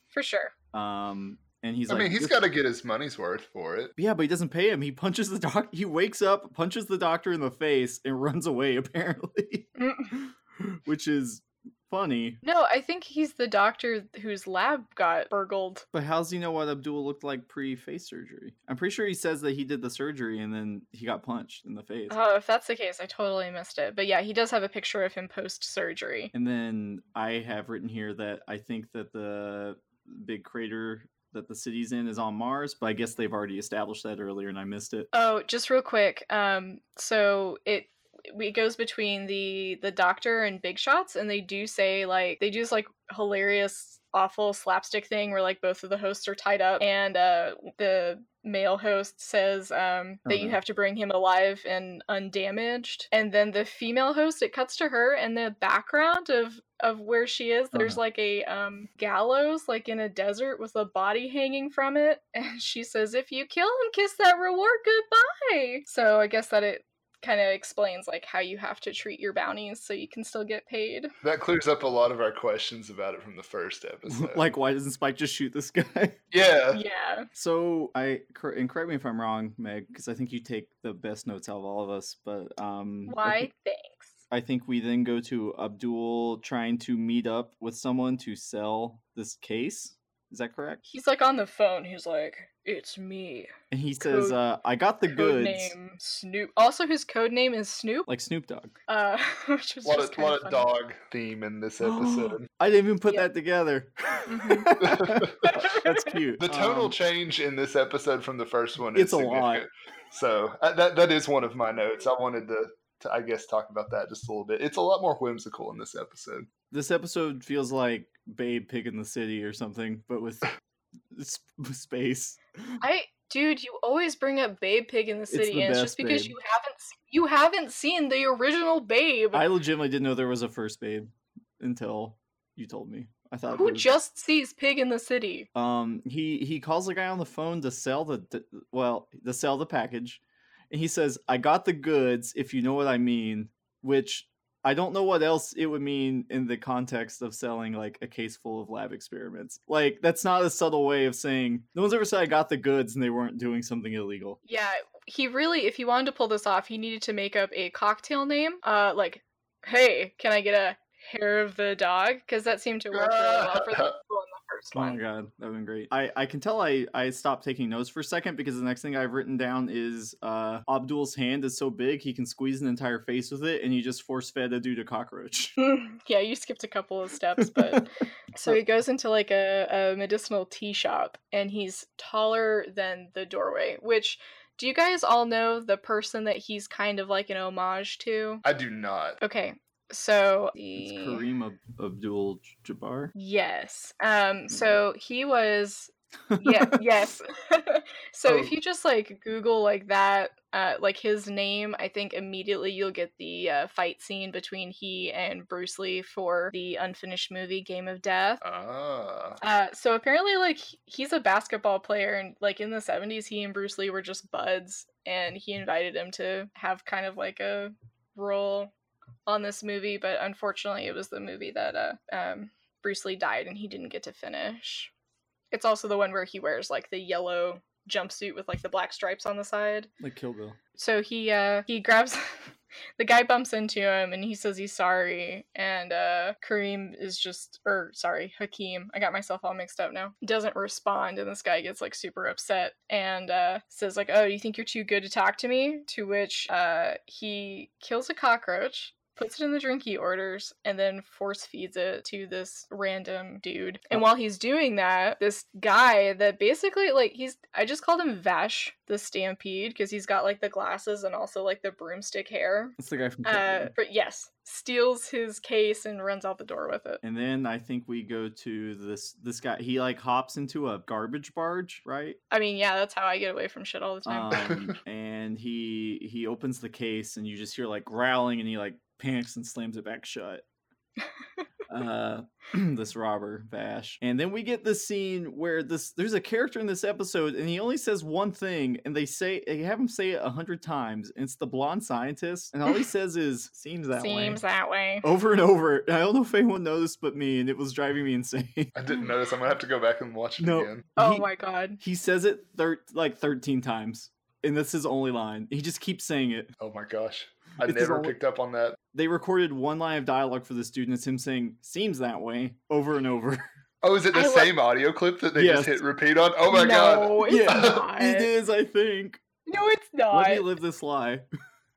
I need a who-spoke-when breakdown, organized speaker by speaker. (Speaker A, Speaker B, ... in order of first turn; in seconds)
Speaker A: 0.1-0.5, 9.8-10.1, 12.4-15.8, 22.1-26.3, 35.1-71.1, 76.7-77.3, 83.1-84.2, 90.8-94.4, 95.1-98.1, 98.9-100.7, 104.3-104.7, 105.4-106.1, 122.8-129.4, 133.5-135.5, 154.4-165.0, 175.6-188.4, 189.2-191.2, 193.1-208.4, 209.4-218.7, 219.3-224.9, 225.5-229.9, 230.8-232.3, 233.0-267.0, 272.3-274.6, 294.0-295.1, 301.0-301.8, 314.1-314.5, 316.5-318.3, 319.5-320.5
Speaker B: 0.7-2.4, 4.0-12.4, 15.9-22.2, 26.3-35.1, 50.2-50.6, 57.7-58.0, 74.1-76.2, 77.3-83.5, 84.3-90.8, 93.7-95.7, 98.0-98.7, 101.8-106.9, 108.9-109.7, 116.7-120.5, 121.1-122.8, 125.3-126.3, 129.3-133.9, 135.5-154.4, 164.7-175.6, 177.4-177.8, 190.8-193.1, 196.3-196.8, 230.0-230.6, 262.8-263.7, 267.0-272.2, 274.1-280.4, 281.7-294.4, 295.0-298.7, 300.4-301.3, 301.8-306.5, 307.6-308.1, 308.9-313.4, 315.4-315.8, 317.2-319.2, 320.1-321.2
Speaker C: 1.9-3.9, 71.2-74.4, 76.3-76.8, 99.8-102.5, 104.8-105.4, 106.4-116.5, 162.9-163.9, 188.4-189.2, 198.3-198.5, 208.4-209.4, 298.8-300.8, 306.6-308.8, 313.8-317.8